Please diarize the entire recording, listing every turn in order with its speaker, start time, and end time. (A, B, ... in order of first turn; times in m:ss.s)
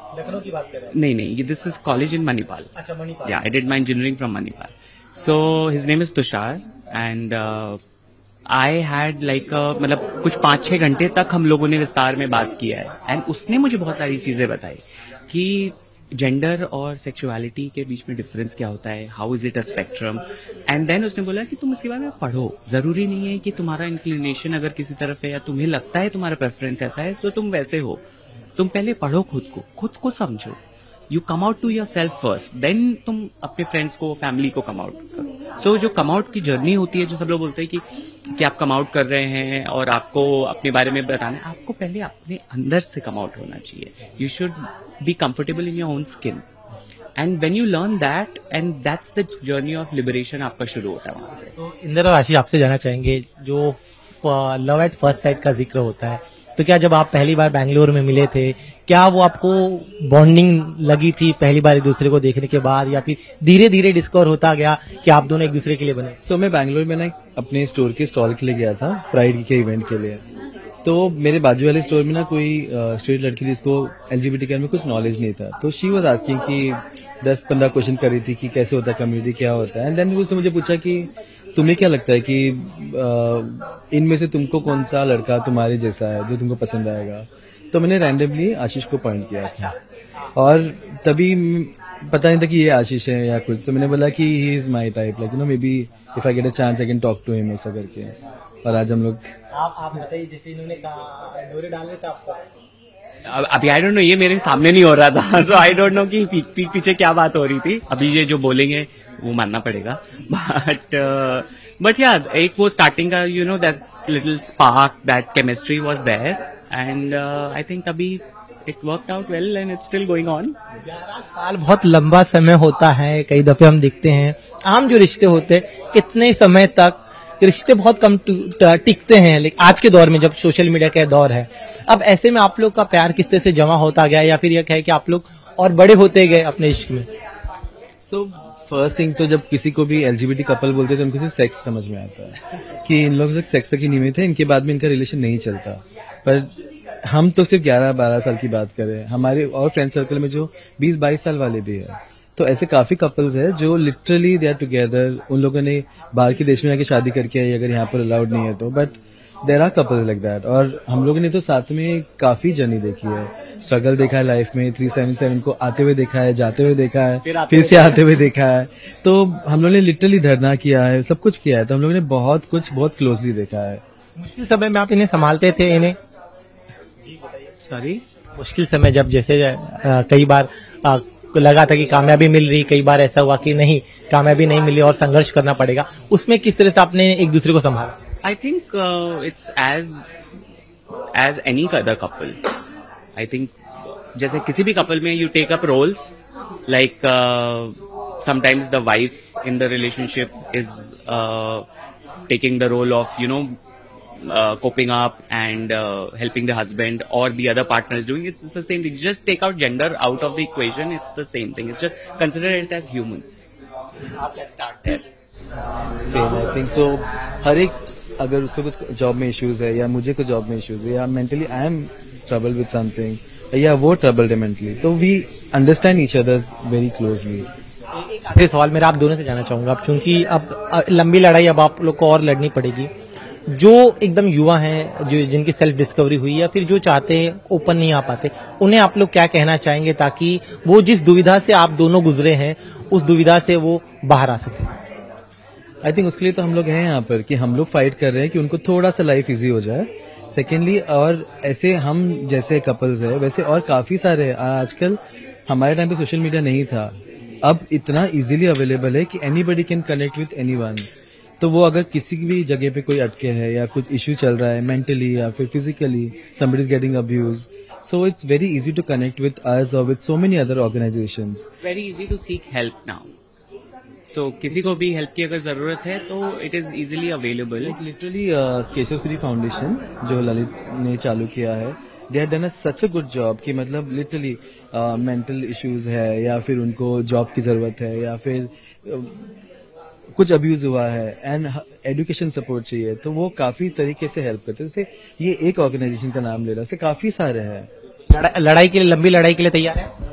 0:00.1-0:00.9 A
0:00.9-0:02.7 B
0:02.8-0:03.4 A
0:03.2-0:07.8 B
0:08.5-0:28.0 B
0:28.6-0:30.6 B
0:31.1-0:37.8 B
0:38.4-0:46.4 B
0:47.2-0:51.5 B
0:51.6-1:06.2 A
1:06.2-1:10.2 C
1:10.8-1:29.7 C
1:29.4-1:29.8 A
1:30.3-1:39.3 C
1:39.5-1:42.4 A
1:43.2-2:00.6 B
2:00.8-2:17.0 A
2:18.0-2:26.5 C
2:27.1-2:53.8 C
2:47.2-2:48.2 B
2:54.2-2:56.0 A
2:57.0-2:57.6 A
2:57.6-2:58.0 B
2:58.4-3:07.9 A
3:08.2-3:10.0 B
3:11.1-3:12.4 B
3:13.2-3:13.5 B
3:14.1-3:16.1 B
3:16.7-3:21.6 B
3:22.3-3:23.6 B
3:24.2-3:33.4 B
3:34.2-3:34.9 A
3:36.0-3:47.5 C
3:48.0-3:52.9 A
3:53.5-4:04.7 A
4:05.8-4:20.9 C
4:21.4-4:31.5 C
4:31.6-4:33.1 B
4:34.1-4:37.8 B
4:37.6-4:49.3 C
4:50.1-4:57.7 C
4:58.1-4:59.9 A